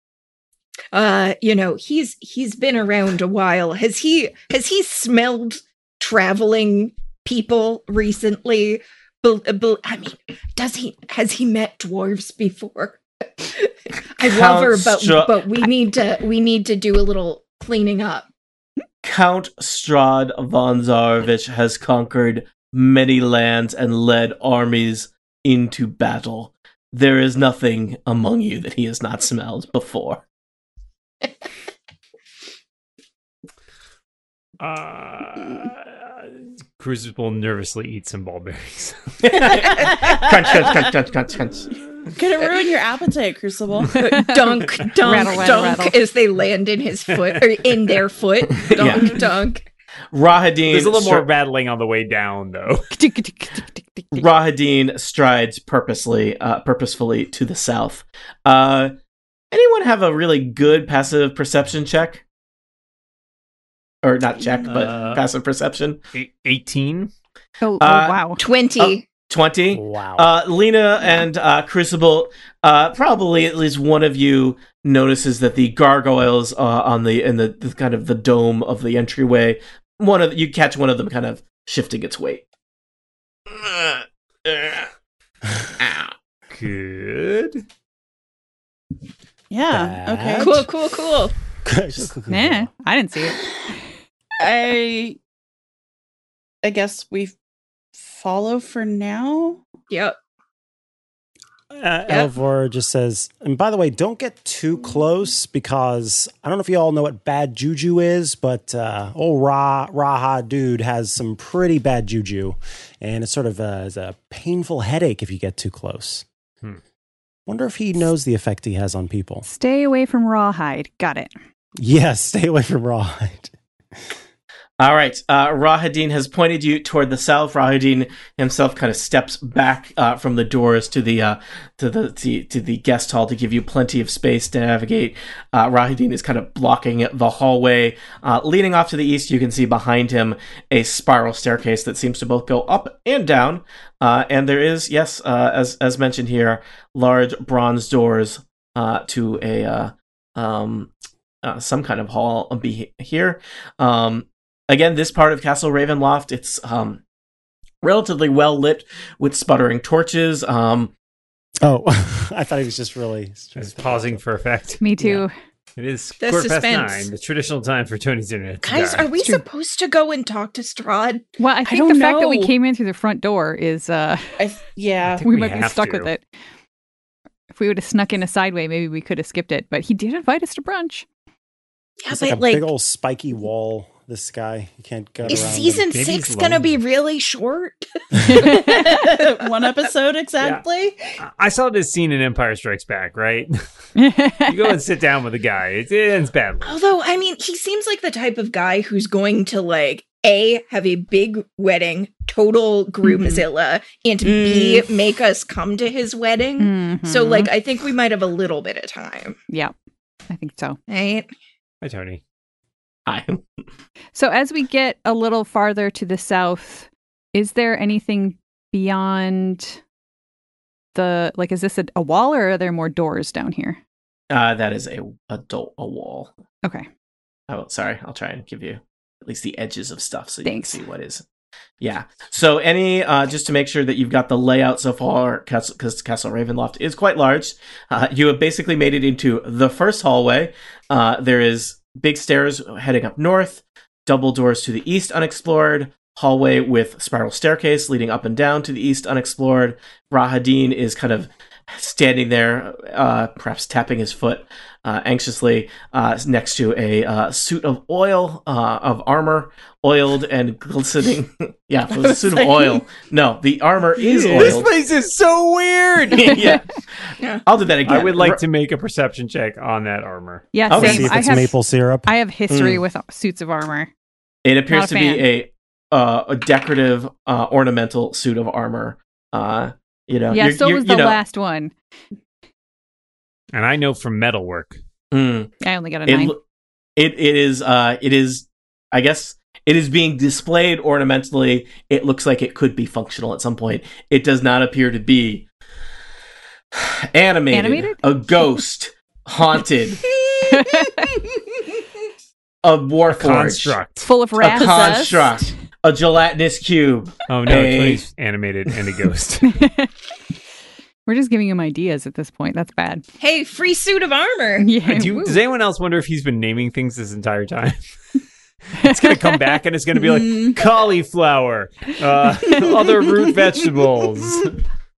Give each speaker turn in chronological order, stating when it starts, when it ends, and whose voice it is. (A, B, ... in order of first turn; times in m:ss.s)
0:00.9-0:18.2 A
0:14.2-0:15.4 B
0:19.0-0:30.2 B
0:34.6-0:39.9 C
0:39.2-0:41.7 B
0:42.1-0:44.3 D
0:44.0-0:49.6 A
0:45.0-0:46.0 E
0:48.6-0:49.2 B
0:50.1-0:51.2 B
0:50.7-0:52.9 C
0:52.9-0:54.3 E
0:54.1-0:58.9 B
0:59.5-1:02.2 B
1:04.0-1:06.0 B
1:04.6-1:05.2 C
1:06.1-1:07.1 C
1:07.6-1:08.4 E
1:07.8-1:08.2 B
1:08.4-1:09.0 A
1:08.8-1:22.4 B
1:09.8-1:10.2 F
1:09.8-1:10.1 C
1:23.5-1:24.9 B
1:25.8-1:26.1 B
1:26.5-1:27.6 C
1:29.5-1:30.6 D
1:29.7-1:30.7 F
1:30.4-1:31.3 A
1:31.6-1:32.7 F
1:32.3-1:33.4 E
1:34.4-1:35.2 D
1:36.6-1:37.4 D
1:38.0-1:39.6 D
1:39.9-1:40.1 A
1:41.7-1:56.2 F
1:57.4-1:59.4 F
1:59.4-2:01.3 E
2:01.8-2:03.5 F
2:04.8-2:30.9 B
2:31.4-2:37.0 B
2:37.8-2:40.9 B
2:41.6-2:44.2 F
2:43.6-2:45.2 C
2:44.8-2:45.3 E
2:45.8-2:49.1 C
2:46.2-2:47.1 A
2:48.6-2:51.2 A
2:49.2-2:49.4 E
2:51.4-2:54.4 E
2:51.7-2:52.5 D
2:54.4-2:55.3 D
2:55.0-2:56.1 C
2:55.2-2:56.2 E
2:57.5-3:01.0 E
3:02.0-3:02.6 A
3:02.1-3:05.8 F
3:05.2-3:06.8 C
3:05.3-3:09.4 A
3:08.3-3:08.6 E
3:08.4-3:11.0 D
3:11.2-3:13.5 C
3:14.0-3:14.8 E
3:14.5-3:16.8 C
3:16.6-3:29.4 A
3:24.2-3:24.9 D
3:26.6-3:27.5 E
3:30.3-3:30.8 E
3:30.9-3:31.3 A
3:31.8-3:32.2 C
3:33.1-3:33.4 B
3:34.1-3:39.8 E
3:40.9-3:43.8 E
3:44.3-3:46.3 B
3:47.5-3:51.2 B
3:50.4-3:50.8 E
3:51.8-4:24.7 B
4:22.2-4:22.8 D
4:24.0-4:26.6 C
4:26.1-4:26.6 B
4:27.4-4:28.4 B
4:27.8-4:30.6 C
4:30.5-4:33.9 E
4:30.7-4:31.1 B
4:30.7-4:32.1 F
4:32.5-4:32.8 B
4:34.4-4:41.2 B
4:34.7-4:35.2 E
4:40.3-4:41.7 E
4:43.5-4:44.8 C
4:45.1-4:45.5 B
4:45.6-4:46.3 E
4:46.0-4:46.4 B
4:47.0-4:55.4 B
4:56.7-5:00.0 B
4:57.5-4:58.0 E
5:00.4-5:01.1 E
5:02.6-5:03.8 B
5:03.1-5:04.1 C
5:04.0-5:04.8 E
5:04.4-5:08.0 B
5:04.4-5:05.4 D
5:07.3-5:09.6 C
5:09.4-5:09.9 E
5:11.0-5:13.0 E
5:13.2-5:14.8 A
5:14.6-5:15.4 E
5:14.8-5:17.9 C
5:18.8-5:19.6 E
5:18.8-5:24.6 C
5:20.1-5:20.6 D